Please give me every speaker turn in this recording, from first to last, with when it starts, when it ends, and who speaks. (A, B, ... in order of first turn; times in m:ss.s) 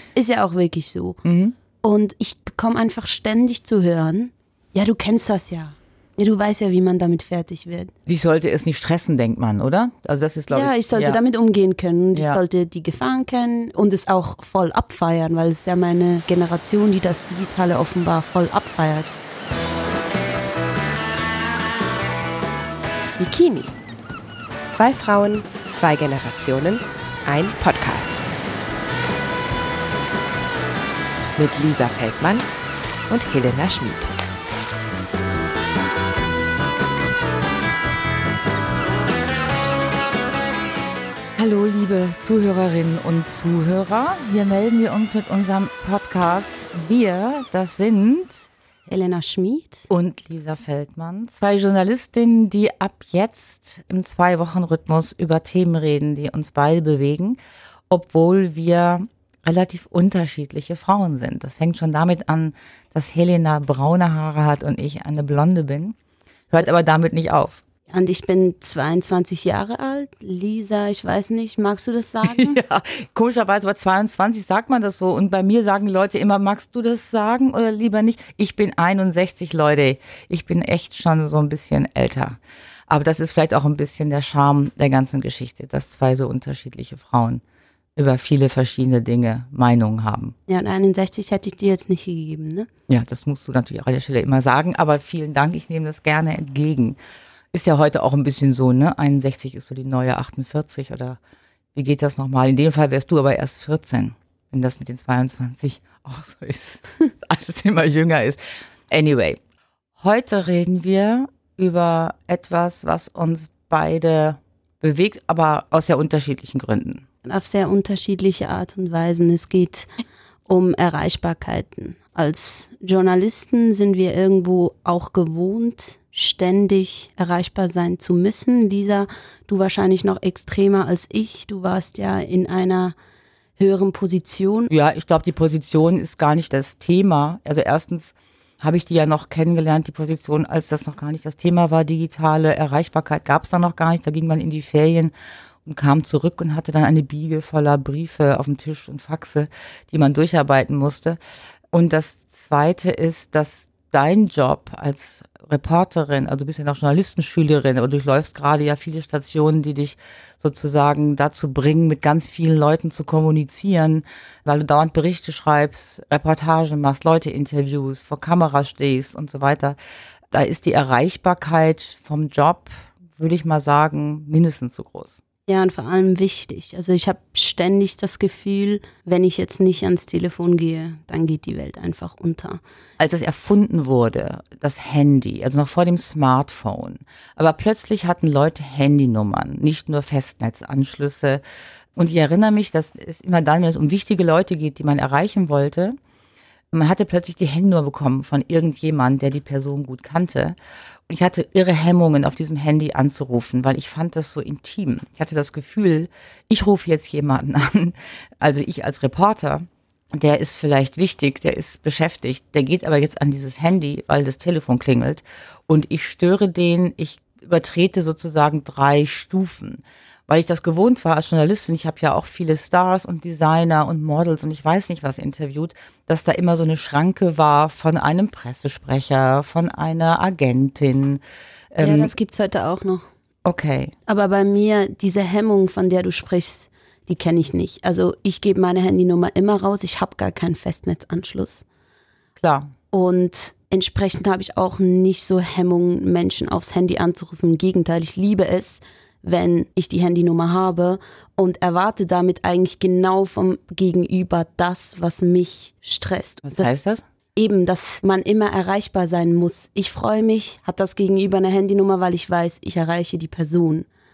0:00.2-0:01.2 A
0:01.2-0:01.6 B
0:01.8-0:07.9 A
0:08.1-0:11.2 B
0:10.5-0:19.2 A
0:12.1-0:12.4 B
0:23.2-0:23.8 C
0:24.7-0:28.3 C
0:31.4-0:32.4 C
0:33.1-0:34.1 C
0:41.4-0:48.5 B
0:48.9-0:49.9 A
0:49.9-0:57.4 B
0:57.9-1:06.0 B
1:06.5-1:07.6 B
1:07.9-1:12.6 A
1:12.2-1:27.4 B
1:28.0-1:30.4 B
1:30.5-1:32.7 A
1:32.9-1:37.0 B
1:37.5-1:41.2 B
1:41.8-1:49.4 B
1:50.0-1:57.0 B
1:57.2-1:59.9 A
2:00.5-2:13.0 A
2:13.6-2:14.7 A
2:14.7-2:25.1 B
2:25.6-2:31.2 B
2:31.7-2:49.8 B
2:50.3-2:55.2 B
2:55.5-3:02.6 A
3:03.0-3:11.4 B
3:12.0-3:16.0 B
3:16.7-3:20.6 B
3:21.1-3:51.2 B
3:51.7-3:52.1 B
3:51.8-3:53.1 A
3:53.4-3:53.9 B
3:54.1-4:01.6 A
4:02.4-4:02.7 B
4:02.9-4:16.8 A
4:16.5-4:17.0 B
4:17.4-4:23.9 A